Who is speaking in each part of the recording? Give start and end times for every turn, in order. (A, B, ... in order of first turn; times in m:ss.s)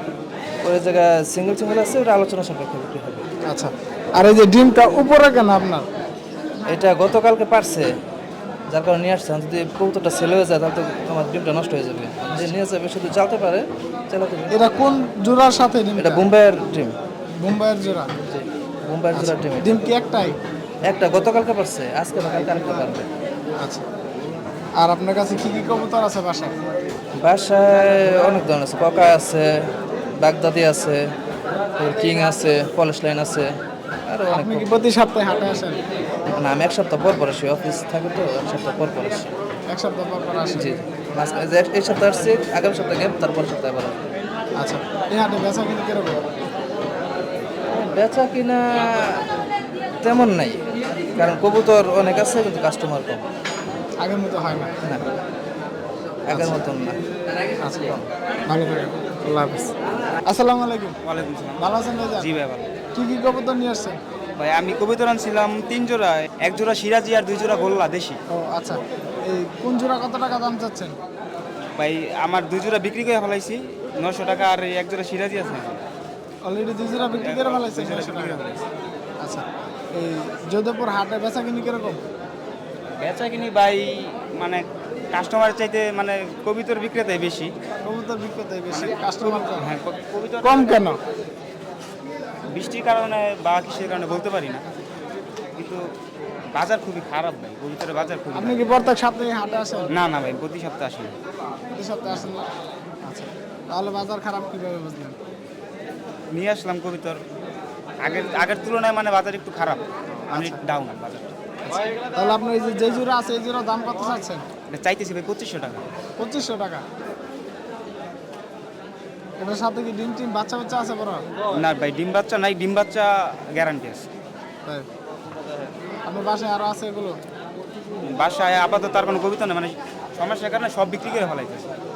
0:00.6-0:03.3 A
0:03.4-0:05.9 B
0:06.7-0:07.9 A
0:08.7-0:14.5 A
0:14.5-0:16.3 B
0:16.0-0:17.0 A
0:17.4-0:18.1 B
0:18.3-0:19.8 A
0:19.1-0:20.4 B
0:20.9-0:23.1 A
0:23.6-0:23.8 B
0:24.8-0:26.5 B
0:27.2-0:29.5 A
0:30.2-0:31.0 A
0:31.8-0:33.5 A
0:34.1-0:34.7 A
0:34.3-0:35.8 B
0:36.3-0:39.3 A
0:39.7-0:40.8 B
0:40.6-0:44.0 A
0:44.6-0:46.2 B
0:47.7-0:49.2 A
0:50.0-0:50.6 A
0:51.2-0:53.2 A
0:54.0-0:54.7 B
0:56.3-0:57.0 A
0:56.3-0:56.6 B
0:57.6-0:59.7 B
1:00.2-1:01.0 B
1:01.0-1:02.7 C
1:01.6-1:02.3 B
1:02.9-1:04.0 B
1:04.4-1:08.2 C
1:08.3-1:10.9 B
1:11.8-1:15.8 C
1:16.4-1:18.5 B
1:17.2-1:18.6 C
1:20.0-1:22.0 B
1:23.0-1:24.6 C
1:25.1-1:27.5 C
1:27.8-1:29.7 B
1:28.7-1:30.8 C
1:30.4-1:31.0 B
1:32.5-1:34.7 C
1:35.6-1:35.8 C
1:36.6-1:38.7 C
1:38.3-1:39.9 B
1:39.9-1:41.1 C
1:41.7-1:42.5 B
1:43.0-1:45.2 B
1:46.3-1:47.2 C
1:48.0-1:51.3 C
1:50.3-1:50.6 B
1:51.6-1:54.4 B
1:54.7-1:55.8 C
1:56.2-1:56.8 B
1:59.4-2:01.2 B
2:01.5-2:04.0 C
2:06.0-2:07.2 B
2:08.1-2:11.7 C